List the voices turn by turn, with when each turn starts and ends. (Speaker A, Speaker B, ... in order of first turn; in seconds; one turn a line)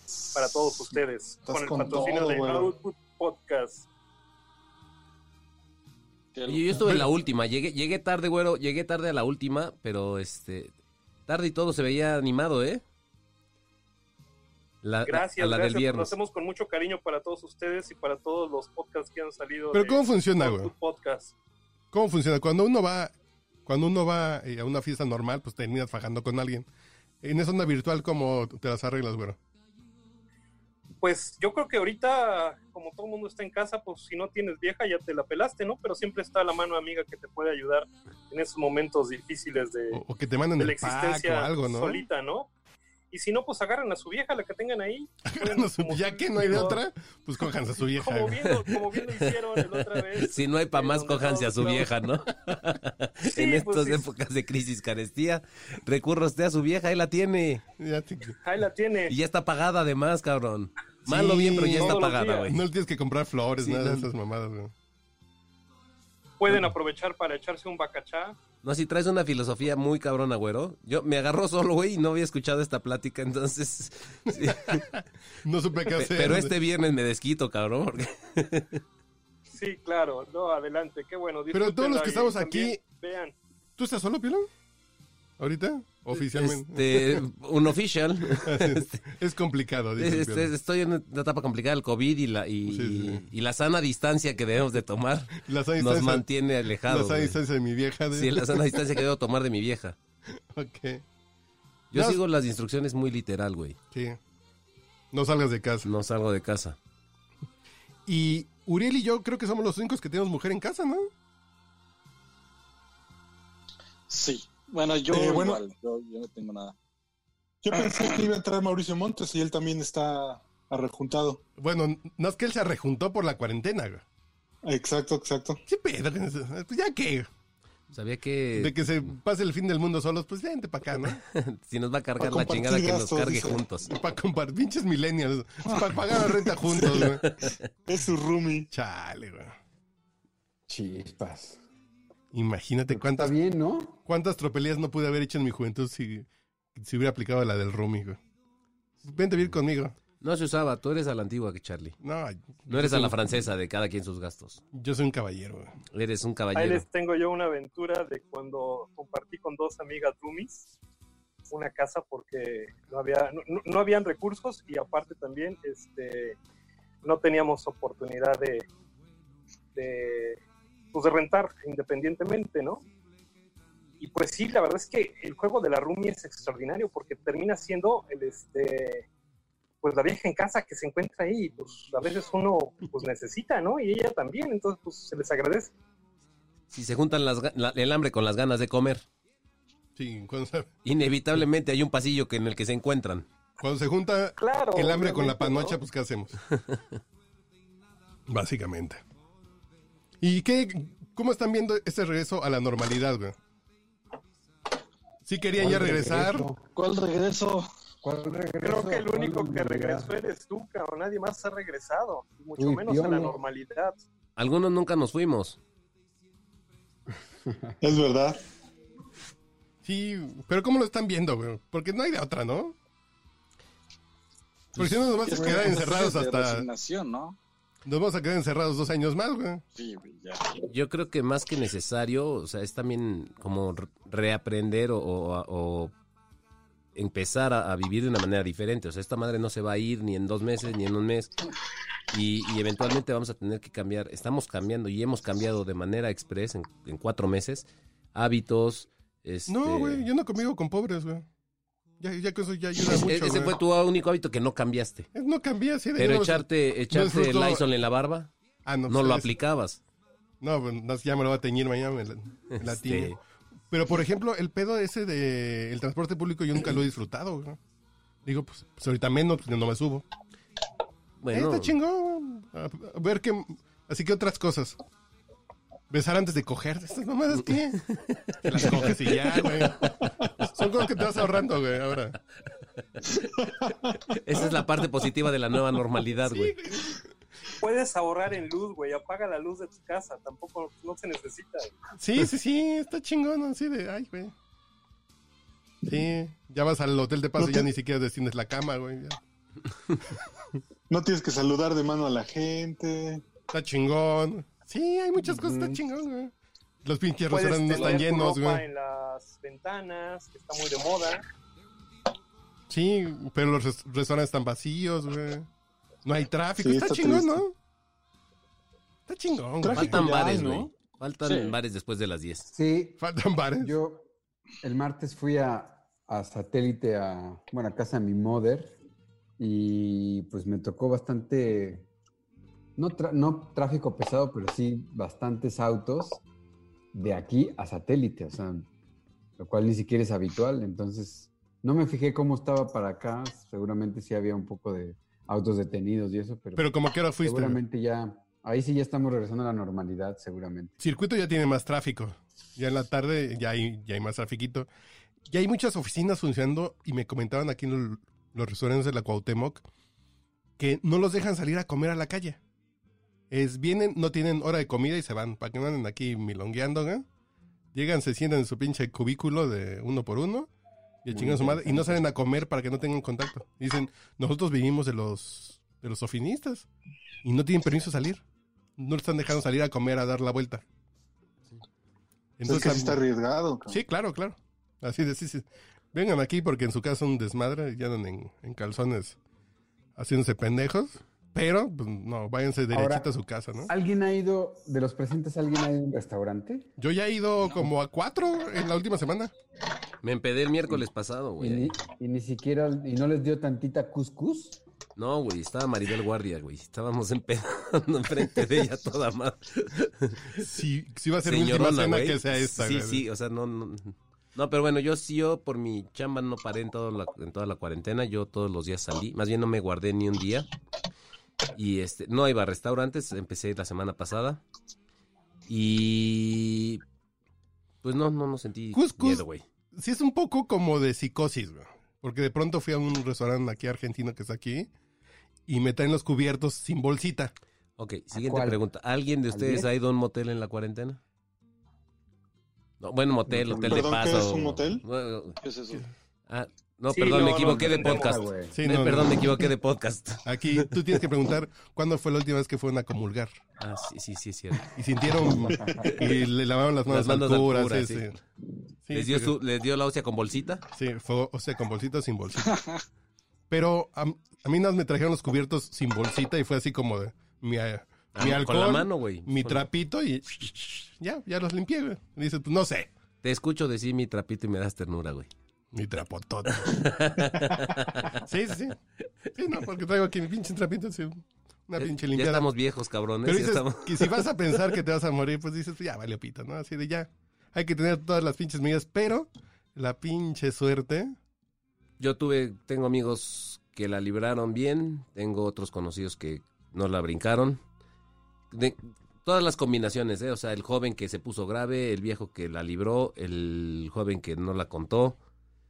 Speaker A: 0.3-3.9
Speaker B: 1.4-2.7
Speaker C: 6.3-6.7
Speaker D: 6.5-10.7
Speaker D: 11.3-12.8
Speaker D: 14.8-16.1
Speaker A: 15.1-21.3
Speaker E: 19.7-20.7
Speaker E: 21.9-23.1
Speaker E: 23.6-26.7
Speaker E: 27.2-29.4
Speaker A: 31.0-40.0
Speaker E: 39.9-42.0
Speaker A: 40.6-42.5
Speaker A: 43.1-46.8
Speaker E: 45.3-49.0
Speaker A: 48.0-51.9
Speaker E: 49.9-50.2
Speaker D: 50.3-57.6
Speaker A: 53.2-54.0
Speaker E: 57.8-58.4
Speaker A: 58.4-59.1
Speaker D: 59.1-62.6
Speaker E: 61.0-64.7
Speaker A: 61.8-62.5
Speaker D: 63.6-64.1
Speaker A: 66.4-68.4
Speaker D: 68.6-74.8
Speaker E: 74.3-76.5
Speaker D: 75.9-78.8
Speaker A: 79.5-83.3
Speaker E: 81.5-82.8
Speaker E: 83.8-84.5
Speaker E: 85.4-87.2
Speaker D: 86.2-88.9
Speaker E: 88.4-90.5
Speaker D: 90.0-97.4
Speaker E: 92.7-93.2
Speaker E: 95.4-96.2
Speaker E: 96.8-99.0
Speaker D: 98.1-100.0
Speaker E: 100.3-101.0
Speaker D: 101.9-103.8
Speaker E: 101.9-102.2
Speaker E: 103.9-104.2
Speaker E: 105.1-105.9
Speaker D: 105.8-106.8
Speaker E: 108.0-111.1
Speaker C: 114.1-116.7
Speaker B: 115.1-115.6
Speaker B: 117.6-121.4
Speaker C: 117.7-118.3
Speaker E: 121.6-124.0
Speaker B: 124.6-125.6
Speaker E: 125.7-127.3
Speaker D: 127.9-129.1
Speaker E: 128.6-131.2
Speaker D: 131.2-133.9
Speaker B: 132.2-133.6
Speaker E: 133.9-137.2
Speaker D: 137.0-137.5
Speaker B: 137.9-138.7
Speaker E: 138.7-139.5
Speaker F: 140.7-141.6
Speaker E: 142.3-143.3
Speaker F: 142.9-144.0
Speaker E: 144.1-148.2
Speaker E: 149.0-149.9
Speaker D: 150.2-151.9
Speaker E: 152.0-153.2
Speaker D: 152.7-154.6
Speaker E: 154.7-155.7
Speaker D: 155.9-156.8
Speaker A: 156.5-160.7
Speaker A: 161.5-166.4
Speaker A: 167.0-168.7
Speaker A: 169.7-170.4
Speaker A: 170.9-172.8
Speaker A: 174.0-179.1
Speaker A: 179.8-185.7
Speaker D: 186.7-189.0
Speaker E: 189.9-190.7
Speaker D: 190.8-193.2
Speaker E: 193.6-196.4
Speaker A: 194.4-195.8
Speaker D: 196.5-196.8
Speaker E: 198.3-199.0
Speaker E: 200.2-203.4
Speaker E: 205.2-206.5
Speaker F: 205.6-206.6
Speaker C: 206.8-207.7
Speaker F: 208.0-210.1
Speaker A: 208.6-214.0
Speaker F: 212.6-213.4
Speaker D: 214.3-215.6
Speaker F: 217.5-217.8
Speaker B: 217.8-218.4
Speaker E: 219.8-222.8
Speaker E: 224.8-226.7
Speaker C: 225.2-227.4
Speaker E: 227.8-229.6
Speaker C: 229.7-230.6
Speaker D: 230.7-235.9
Speaker D: 236.9-241.3
Speaker D: 242.1-250.0
Speaker E: 249.5-251.2
Speaker E: 252.0-253.6
Speaker D: 252.8-255.1
Speaker E: 255.1-257.6
Speaker D: 256.0-258.3
Speaker E: 258.6-259.3
Speaker D: 258.9-259.8
Speaker E: 260.4-263.2
Speaker D: 262.5-263.2
Speaker E: 263.7-267.6
Speaker E: 268.2-270.1
Speaker D: 271.2-271.7
Speaker E: 271.3-274.8
Speaker E: 275.9-277.9
Speaker D: 277.9-279.6
Speaker E: 278.4-282.2
Speaker D: 284.1-286.5
Speaker E: 286.2-287.0
Speaker A: 287.6-291.7
Speaker E: 292.0-294.3
Speaker E: 295.9-299.2
Speaker B: 297.4-297.7
Speaker B: 300.9-303.2
Speaker E: 303.5-308.6
Speaker F: 305.4-305.7
Speaker A: 307.3-311.2
Speaker E: 312.7-315.5
Speaker E: 316.0-317.5
Speaker B: 316.6-317.4
Speaker E: 319.1-320.0
Speaker B: 319.6-320.7
Speaker D: 319.7-322.5
Speaker C: 321.2-321.6
Speaker F: 322.5-323.0
Speaker E: 323.0-323.7
Speaker F: 323.6-324.1
Speaker F: 324.6-328.8
Speaker F: 329.4-331.9
Speaker F: 332.8-336.2
Speaker F: 336.9-338.7
Speaker F: 339.4-346.7
Speaker E: 346.6-347.6
Speaker F: 347.2-350.7
Speaker E: 350.8-354.7
Speaker E: 355.3-359.6
Speaker E: 360.6-362.4
Speaker E: 363.3-367.1
Speaker E: 367.7-370.5
Speaker E: 371.0-376.7
Speaker F: 371.1-372.0
Speaker E: 377.2-378.2
Speaker E: 378.8-380.6
Speaker E: 382.4-383.0
Speaker B: 382.4-383.8
Speaker E: 383.7-389.2
Speaker E: 389.9-393.7
Speaker F: 392.7-393.1
Speaker F: 393.6-396.7
Speaker E: 396.8-399.3
Speaker D: 400.0-401.7
Speaker F: 401.4-404.6
Speaker D: 405.0-410.4
Speaker E: 410.4-413.0
Speaker D: 411.2-420.5
Speaker D: 421.5-424.4
Speaker D: 425.5-426.8
Speaker D: 427.8-429.4
Speaker E: 428.7-434.7
Speaker E: 435.5-437.3
Speaker D: 437.8-441.0
Speaker F: 438.1-438.6
Speaker F: 439.3-439.7
Speaker D: 442.8-445.4
Speaker F: 443.3-443.9
Speaker B: 443.7-444.8
Speaker C: 445.4-445.8
Speaker D: 446.3-450.7
Speaker A: 446.9-448.2
Speaker F: 447.2-448.6
Speaker E: 448.5-449.3
Speaker E: 450.2-453.4
Speaker D: 453.6-454.7
Speaker E: 454.7-458.1
Speaker F: 455.4-456.0
Speaker D: 456.9-458.1
Speaker E: 458.9-459.3
Speaker D: 458.9-460.6
Speaker E: 460.7-462.6
Speaker C: 462.5-462.8
Speaker E: 463.5-472.9
Speaker D: 468.1-469.6
Speaker D: 473.2-475.3
Speaker E: 475.7-476.9
Speaker D: 476.5-478.2
Speaker E: 478.2-478.8
Speaker E: 479.3-482.5
Speaker D: 481.8-484.3
Speaker E: 483.2-491.1
Speaker D: 492.0-497.6
Speaker D: 498.5-505.2